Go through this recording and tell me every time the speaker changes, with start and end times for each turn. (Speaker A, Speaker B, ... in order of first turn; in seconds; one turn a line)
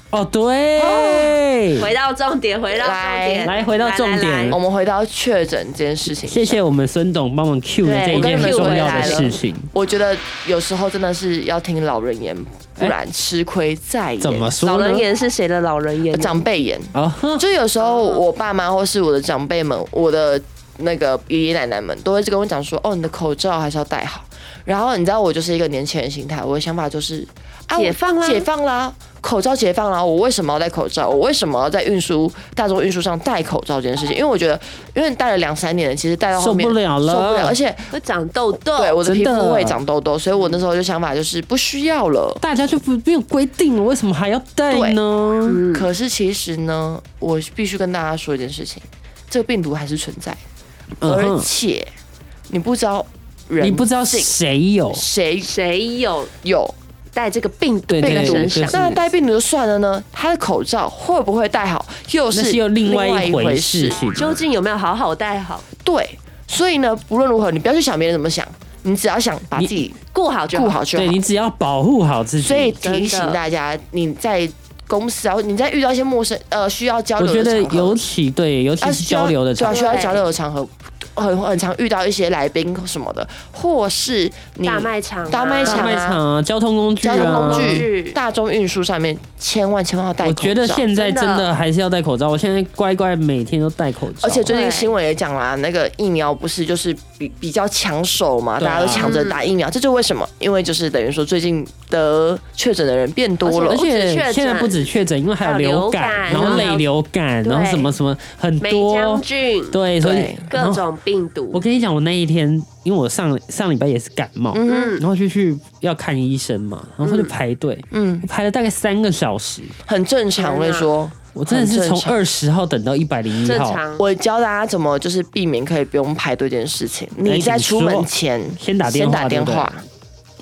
Speaker A: 0.1-1.9
Speaker B: 0.8-1.3
Speaker C: 1.8-4.6
Speaker B: 2.7-3.5
Speaker A: 3.5-4.6
Speaker B: 4.5-6.6
Speaker A: 6.2-9.7
Speaker C: 7.8-9.3
Speaker B: 8.1-14.6
Speaker A: 14.2-15.1
Speaker C: 14.6-16.4
Speaker B: 16.1-38.0
Speaker A: 16.9-17.4
Speaker C: 17.8-18.2
Speaker C: 27.8-28.5
Speaker A: 36.4-37.6
Speaker C: 37.9-39.0
Speaker B: 38.8-42.4
Speaker A: 39.0-39.8
Speaker A: 42.4-45.6
Speaker B: 44.7-45.0
Speaker C: 45.5-45.9
Speaker B: 45.7-50.4
Speaker A: 51.0-51.5
Speaker B: 51.0-51.9
Speaker B: 52.5-54.3
Speaker A: 53.6-55.0
Speaker B: 54.9-55.5
Speaker C: 55.4-56.3
Speaker B: 56.4-56.8
Speaker C: 57.1-58.9
Speaker A: 57.9-59.0
Speaker B: 58.0-64.0
Speaker A: 62.3-64.4
Speaker C: 64.1-65.7
Speaker B: 65.8-70.0
Speaker C: 70.1-70.8
Speaker B: 70.5-71.2
Speaker A: 71.0-72.8
Speaker B: 72.4-78.0
Speaker C: 72.8-73.4
Speaker A: 77.2-79.9
Speaker B: 78.8-86.2
Speaker C: 79.7-80.2
Speaker C: 84.6-86.0
Speaker A: 85.7-87.9
Speaker B: 87.0-90.9
Speaker C: 87.1-88.2
Speaker A: 90.2-94.5
Speaker C: 90.9-91.5
Speaker B: 94.2-103.8
Speaker C: 94.5-94.9
Speaker A: 98.6-99.2
Speaker C: 99.0-99.4
Speaker C: 103.5-104.9
Speaker A: 103.7-110.8
Speaker C: 105.4-106.9
Speaker B: 106.3-106.7
Speaker C: 107.4-108.0
Speaker C: 108.6-109.8
Speaker B: 110.0-110.5
Speaker C: 110.5-111.6
Speaker A: 111.5-119.7
Speaker B: 114.5-115.0
Speaker C: 114.7-115.0
Speaker C: 117.0-117.3
Speaker B: 117.9-118.3
Speaker B: 119.9-122.2
Speaker C: 120.4-120.9
Speaker A: 121.3-123.8
Speaker C: 123.4-124.0
Speaker B: 124.0-129.8
Speaker A: 127.2-129.7